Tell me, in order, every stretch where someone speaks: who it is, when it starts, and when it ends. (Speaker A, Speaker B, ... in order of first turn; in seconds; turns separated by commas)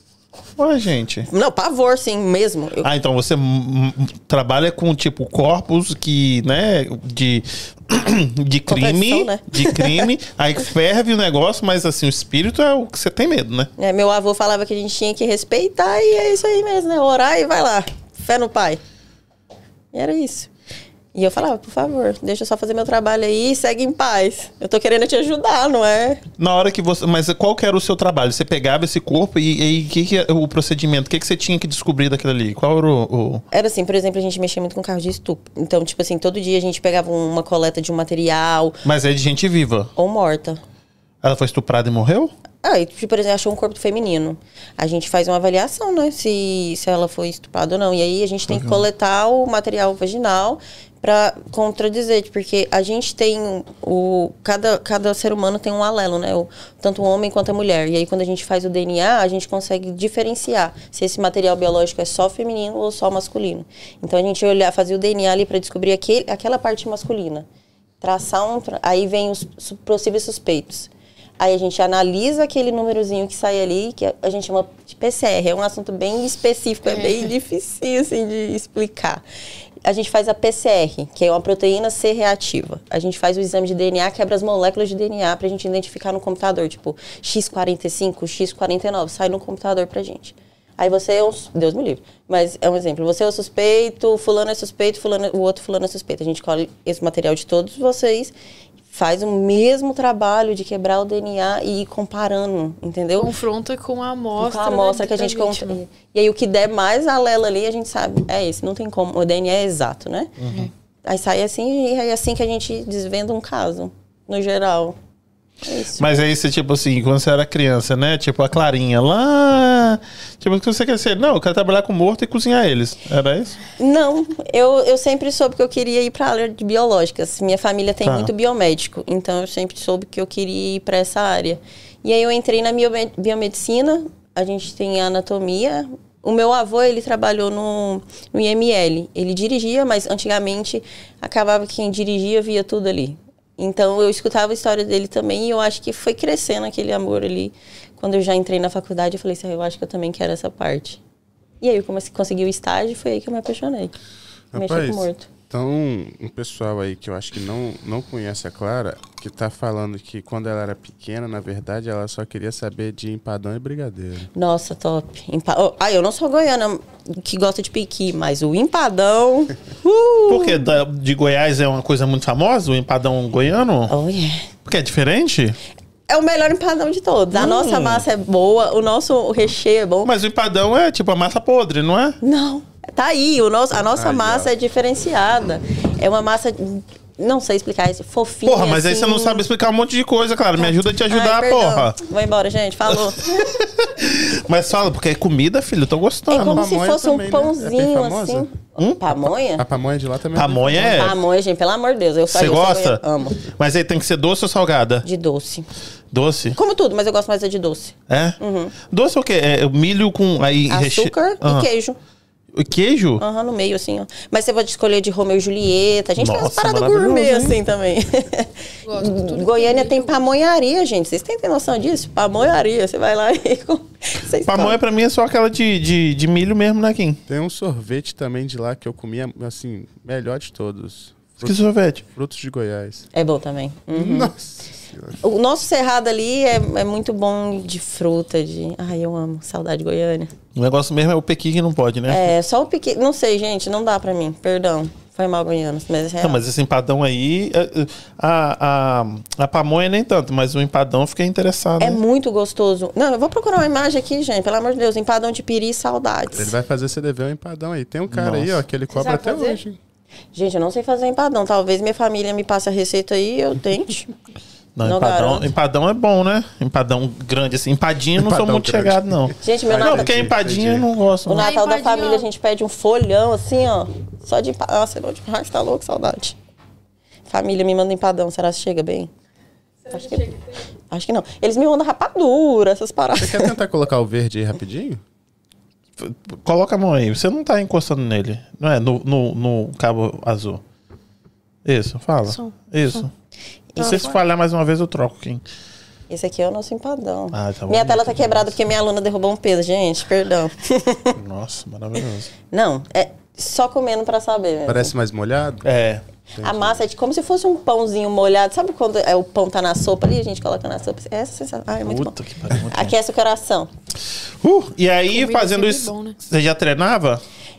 Speaker A: 0.6-1.3, Speaker B: 1.3-2.9, Speaker A: 2.8-13.7, Speaker B: 8.7-10.1, Speaker B: 13.8-18.8, Speaker B: 19.9-20.5, Speaker B: 21.1-26.2, Speaker A: 26.4-33.4, Speaker B: 33.5-38.8, Speaker A: 38.9-39.9, Speaker B: 40.0-40.6, Speaker A: 41.2-42.3, Speaker B: 42.6-67.5, Speaker A: 48.5-48.8, Speaker B: 68.0-79.2, Speaker C: 76.9-77.3, Speaker B: 79.8-98.3, Speaker B: 98.9-103.3, Speaker C: 103.2-105.8, Speaker B: 104.4-110.3, Speaker A: 110.4-110.7, Speaker B: 111.0-115.0, Speaker B: 115.6-116.0, Speaker A: 116.0-123.6, Speaker B: 123.8-151.0, Speaker A: 128.0-128.3, Speaker B: 151.6-153.9, Speaker D: 154.5-164.3, Speaker B: 154.5-155.3, Speaker B: 164.3-170.7, Speaker A: 170.3-173.9, Speaker B: 173.9-174.5, Speaker A: 174.7-175.6, Speaker B: 176.1-180.1, Speaker A: 177.3-178.0, Speaker A: 180.0-182.2, Speaker B: 182.2-189.4, Speaker D: 183.9-184.5, Speaker A: 188.4-192.0, Speaker B: 190.6-193.3, Speaker A: 192.9-196.7, Speaker B: 196.3-199.7, Speaker D: 196.4-198.5, Speaker D: 199.6-201.1, Speaker A: 200.3-201.2, Speaker B: 200.8-203.4, Speaker A: 202.3-205.1, Speaker B: 205.0-205.7, Speaker A: 206.1-206.6, Speaker B: 206.6-208.7, Speaker A: 208.1-211.7, Speaker B: 210.7-212.0, Speaker A: 212.5-213.2, Speaker B: 213.2-224.8, Speaker A: 216.2-217.6, Speaker C: 218.8-220.2, Speaker A: 224.4-227.2, Speaker D: 227.3-233.1, Speaker A: 231.4-232.0, Speaker B: 233.1-234.3, Speaker D: 233.9-235.2, Speaker B: 235.2-240.3, Speaker A: 240.6-242.3, Speaker B: 242.1-246.4, Speaker A: 246.2-252.0, Speaker B: 251.8-256.6, Speaker D: 256.3-259.8, Speaker A: 258.1-258.6, Speaker C: 258.9-259.6, Speaker B: 260.3-264.1, Speaker A: 264.8-271.5, Speaker B: 264.8-265.5, Speaker D: 268.2-270.9, Speaker B: 269.4-270.1, Speaker B: 271.3-276.4, Speaker C: 271.4-272.3, Speaker B: 277.3-279.1, Speaker C: 279.9-280.4, Speaker B: 279.9-283.5, Speaker D: 283.2-285.0, Speaker A: 286.0-290.6, Speaker A: 291.6-293.1, Speaker C: 292.3-293.1, Speaker C: 293.8-294.2, Speaker A: 293.8-295.4, Speaker B: 296.1-301.2, Speaker A: 297.3-298.5, Speaker A: 301.2-302.3, Speaker B: 302.5-304.9, Speaker D: 304.7-305.7, Speaker A: 305.6-306.0, Speaker D: 306.3-306.8, Speaker B: 306.4-313.7, Speaker A: 311.8-313.0, Speaker A: 314.4-317.2, Speaker C: 315.1-316.2